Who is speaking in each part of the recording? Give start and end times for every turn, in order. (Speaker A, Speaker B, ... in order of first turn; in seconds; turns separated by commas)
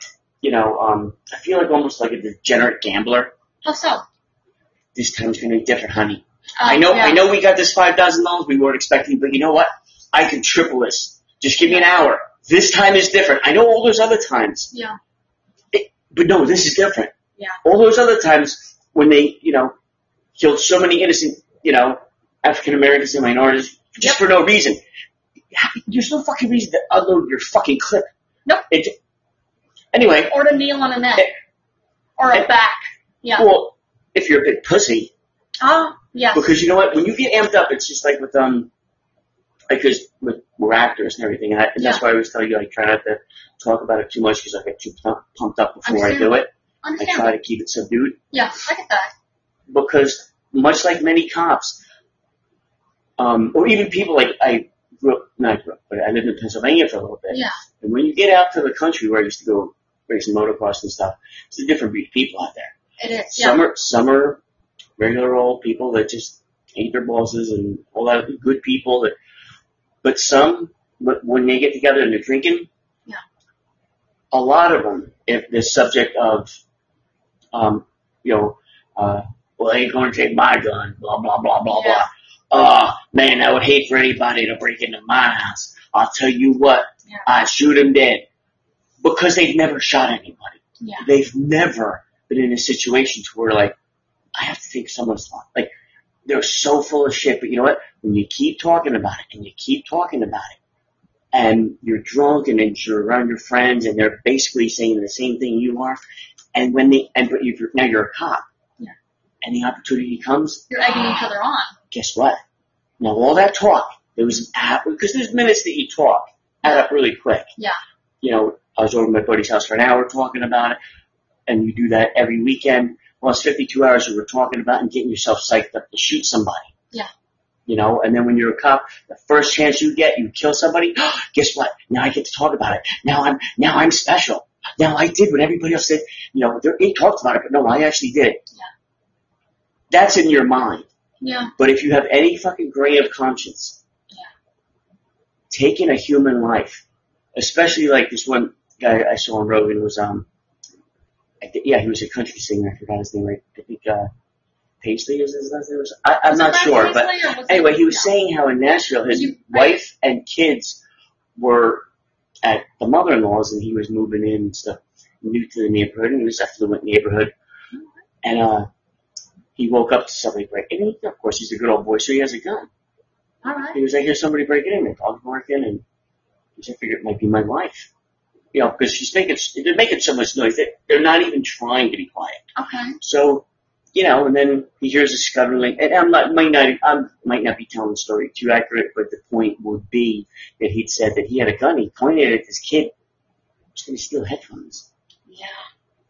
Speaker A: 0.4-3.3, Speaker B: 3.6-4.0, Speaker A: 4.9-14.7, Speaker B: 6.6-7.2, Speaker B: 14.7-15.0, Speaker A: 15.7-19.7, Speaker A: 20.4-24.8, Speaker A: 25.5-28.1, Speaker A: 28.7-28.9, Speaker A: 29.9-30.3, Speaker B: 30.3-31.3, Speaker B: 32.2-33.5, Speaker A: 33.4-35.1, Speaker B: 35.6-36.5, Speaker A: 36.3-38.7, Speaker A: 39.7-48.2, Speaker B: 45.8-47.3, Speaker B: 48.3-49.1, Speaker A: 49.7-51.8, Speaker A: 53.2-62.7, Speaker B: 57.3-57.6, Speaker B: 63.0-63.6, Speaker A: 63.3-64.4, Speaker A: 65.0-69.1, Speaker A: 70.0-72.7, Speaker A: 74.3-76.5, Speaker A: 77.5-88.2, Speaker B: 81.7-82.0, Speaker A: 89.0-93.7, Speaker B: 90.8-91.0, Speaker A: 94.3-95.7, Speaker A: 96.2-100.6, Speaker A: 101.3-106.0, Speaker A: 106.5-108.4, Speaker A: 109.4-110.6, Speaker B: 110.7-111.7, Speaker A: 111.9-112.4, Speaker A: 113.0-117.5, Speaker A: 118.2-120.8, Speaker A: 121.5-126.7, Speaker A: 127.7-138.4, Speaker A: 139.9-140.9, Speaker B: 141.2-141.5, Speaker A: 141.6-143.8, Speaker A: 145.5-146.8, Speaker A: 147.3-150.3, Speaker A: 151.4-154.1, Speaker A: 154.8-160.8, Speaker B: 156.2-158.1, Speaker B: 159.1-159.8, Speaker A: 161.3-161.8, Speaker A: 162.4-167.3, Speaker A: 168.2-168.7, Speaker A: 169.6-172.7, Speaker B: 173.4-173.8, Speaker A: 173.7-175.8, Speaker A: 176.6-177.9, Speaker A: 178.5-182.4, Speaker B: 182.6-183.0, Speaker A: 183.0-192.9, Speaker A: 193.8-194.8, Speaker B: 195.3-195.6